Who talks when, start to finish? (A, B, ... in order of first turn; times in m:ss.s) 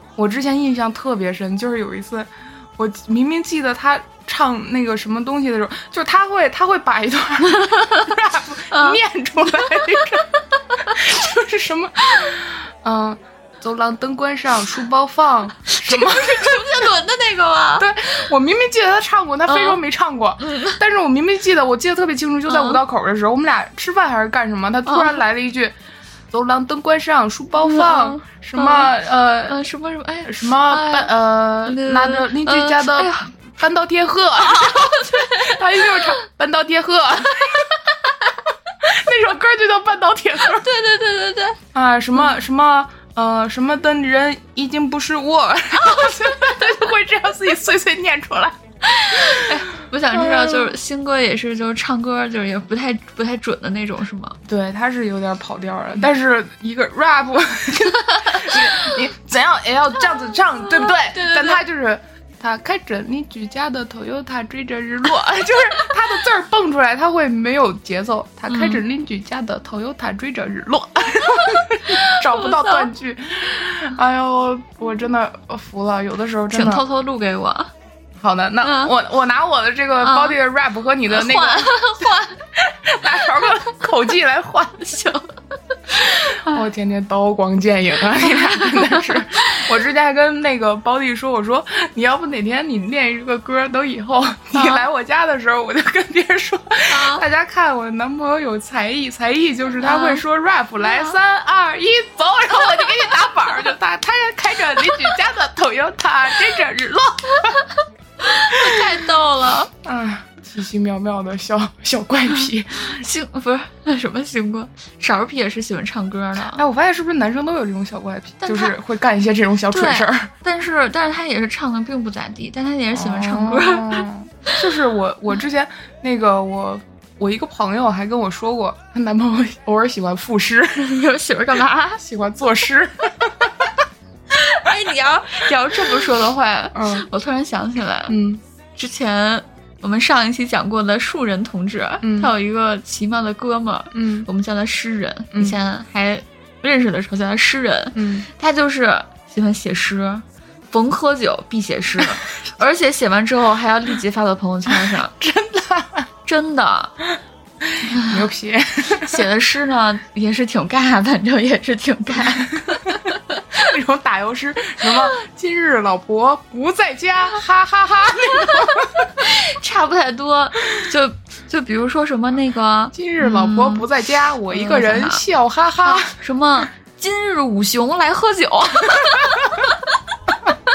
0:00.2-0:10.3 A
0:07.5-0:08.1 B
0:08.7-0:09.0 B
0:09.7-0:10.0 B
0:10.8-0:16.9 A
0:15.7-0:18.3 B
0:17.8-0:25.7 A
0:19.5-0:19.8 B
0:20.4-0:20.8 B
0:22.5-0:22.8 B
0:24.8-0:25.2 B
0:26.3-0:29.6 A
0:27.6-0:28.9 B
0:29.5-0:31.1 B
0:30.2-0:37.7 A
0:31.6-0:33.3 B
0:34.4-0:36.2 B
0:38.8-0:40.7 A
0:40.5-0:41.6 B
0:41.7-0:48.6 A
0:48.8-0:54.4 B
0:49.1-0:49.5 A
0:50.1-0:50.7 A
0:54.5-1:16.8 A
0:58.1-0:58.8 B
1:00.7-1:01.6 B
1:08.5-1:08.8 B
1:11.8-1:12.9 B
1:16.5-1:17.7 B
1:18.2-1:21.8 A
1:18.6-1:18.9 B
1:20.0-1:20.4 B
1:21.1-1:22.4 B
1:22.6-1:24.9 A
1:24.8-1:25.3 B
1:25.9-1:26.6 B
1:26.1-1:47.6 A
1:28.2-1:29.7 B
1:34.5-1:34.8 B
1:36.9-1:37.2 B
1:39.8-1:40.2 B
1:40.8-1:41.1 B
1:47.4-1:49.7 B
1:48.5-1:48.9 A
1:49.8-1:53.0 A
1:52.8-1:56.6 B
1:56.5-2:00.3 A
1:58.4-1:58.8 B
1:59.7-2:04.0 B
2:02.9-2:11.0 A
2:10.8-2:12.0 B
2:12.0-2:13.7 A
2:14.3-2:18.2 B
2:16.7-2:17.1 A
2:18.1-2:18.4 A
2:18.8-2:35.1 B
2:22.0-2:22.3 A
2:23.9-2:24.3 A
2:27.9-2:28.2 A
2:34.7-2:36.1 A
2:36.2-2:36.9 B
2:37.7-2:39.2 A
2:37.8-2:38.2 B
2:38.9-2:43.6 B
2:43.6-2:49.1 A
2:48.3-2:53.9 B
2:52.9-2:56.1 A
2:54.5-2:55.2 B
2:55.8-2:59.8 B